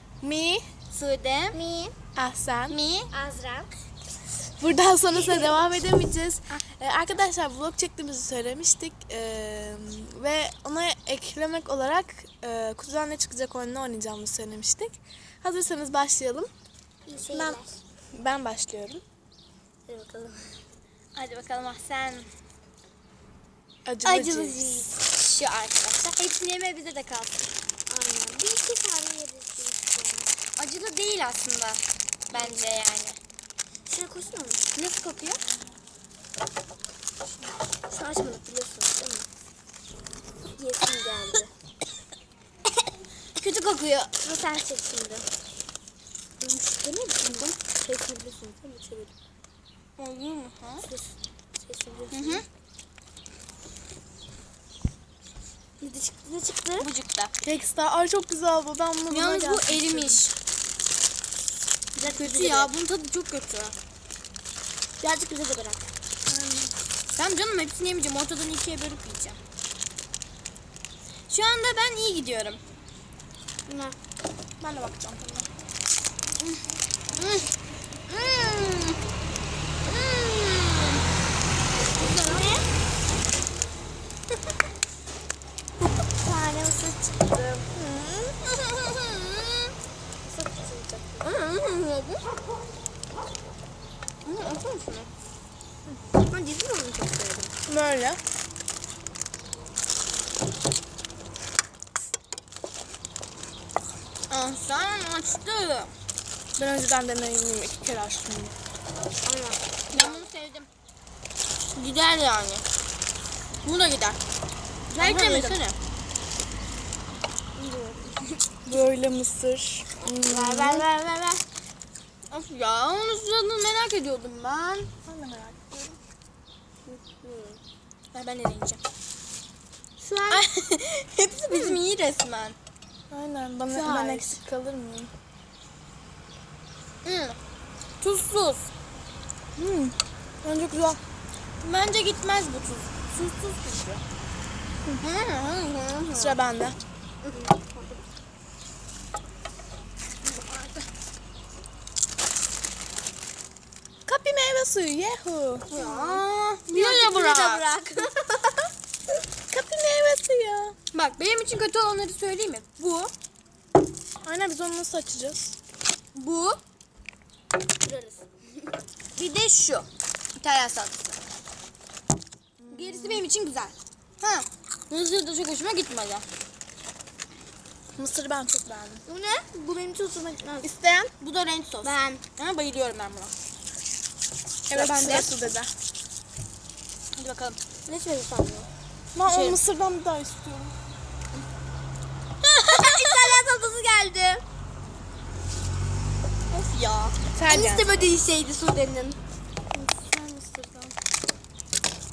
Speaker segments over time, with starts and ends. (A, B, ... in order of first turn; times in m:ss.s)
0:00.2-0:00.6 A
0:00.9-0:01.6 B
0:01.5-0:02.0 C
0:02.2-0:02.8 A
0:02.7-0:03.1 B
0:03.1-0:03.7 C
0:04.6-0:16.5 A
0:17.1-0:17.8 C
0:18.1-0:19.0 A
0:19.9-0:20.6 C
0:21.1-0:22.3 B
0:23.9-0:24.7 A
0:24.0-0:25.0 C
0:25.0-0:27.5 B
0:27.9-0:30.4 C
0:30.6-0:33.2 B
0:32.3-0:32.6 C
0:33.9-0:34.7 C
0:34.8-0:35.4 B
0:37.9-0:39.3 C
0:40.6-0:41.5 C
0:43.4-0:44.1 B
0:44.2-0:45.3 C
0:46.4-0:49.1 C
0:47.2-0:47.6 B
0:50.0-0:50.8 B
0:50.8-0:52.4 C
0:52.1-0:52.4 B
0:55.8-0:56.9 C
0:56.8-0:57.3 B
0:57.4-1:00.2 A
0:59.1-1:00.3 B
1:02.0-1:02.7 C
1:02.0-1:03.8 B
1:05.0-1:05.9 C
1:06.3-1:06.7 A
1:07.1-1:09.4 B
1:11.3-1:12.6 B
1:13.7-1:14.0 C
1:14.6-1:15.5 A
1:17.2-1:17.5 B
1:18.1-1:19.0 B
1:19.8-1:21.0 B
1:22.0-1:22.5 B
1:22.0-1:22.7 C
1:26.0-1:27.7 C
1:28.0-1:29.7 B
1:30.3-1:31.2 C
1:31.2-1:32.2 B
1:34.2-1:35.1 B
1:36.2-1:37.6 C
1:37.7-1:38.2 A
1:44.3-1:45.9 B
1:46.6-1:48.5 A
1:49.2-1:50.3 C
1:49.9-1:50.7 B
1:51.7-1:52.6 B
1:53.6-1:54.2 B
1:54.9-1:55.8 B
1:55.0-1:55.6 A
1:57.6-1:58.4 C
1:58.7-2:00.9 A
2:00.0-2:01.4 C
2:02.3-2:04.9 B
2:05.1-2:06.0 A
2:06.9-2:07.6 C
2:08.1-2:08.8 B
2:10.0-2:10.5 C
2:10.3-2:12.6 B
2:11.5-2:11.8 C
2:13.1-2:15.1 A
2:13.7-2:14.4 C
2:17.0-2:17.4 B
2:18.0-2:18.7 B
2:19.6-2:21.0 A
2:21.6-2:24.0 B
2:25.0-2:26.4 B
2:26.2-2:26.8 A
2:27.2-2:28.0 C
2:30.3-2:30.8 B
2:34.1-2:35.7 A
2:35.7-2:37.6 B
2:35.7-2:38.7 C
2:39.5-2:40.8 A
2:40.9-2:43.1 B
2:44.2-2:45.6 A
2:46.2-2:46.6 B
2:47.8-2:48.3 C
2:49.2-2:51.2 B
2:52.6-2:53.2 A
2:52.7-2:53.7 C
2:54.2-2:56.2 B
2:58.0-2:59.0 A
2:59.1-3:00.7 C
3:00.6-3:01.1 A
3:01.2-3:03.3 B
3:01.8-3:02.2 C
3:04.7-3:05.7 A
3:04.7-3:05.3 C
3:04.8-3:05.2 B
3:07.2-3:07.6 B
3:07.9-3:08.7 C
3:09.2-3:10.8 A
3:09.2-3:09.6 B
3:12.4-3:13.4 B
3:12.7-3:14.4 C
3:16.5-3:17.2 B
3:17.4-3:17.9 A
3:17.4-3:19.2 C
3:19.8-3:20.9 B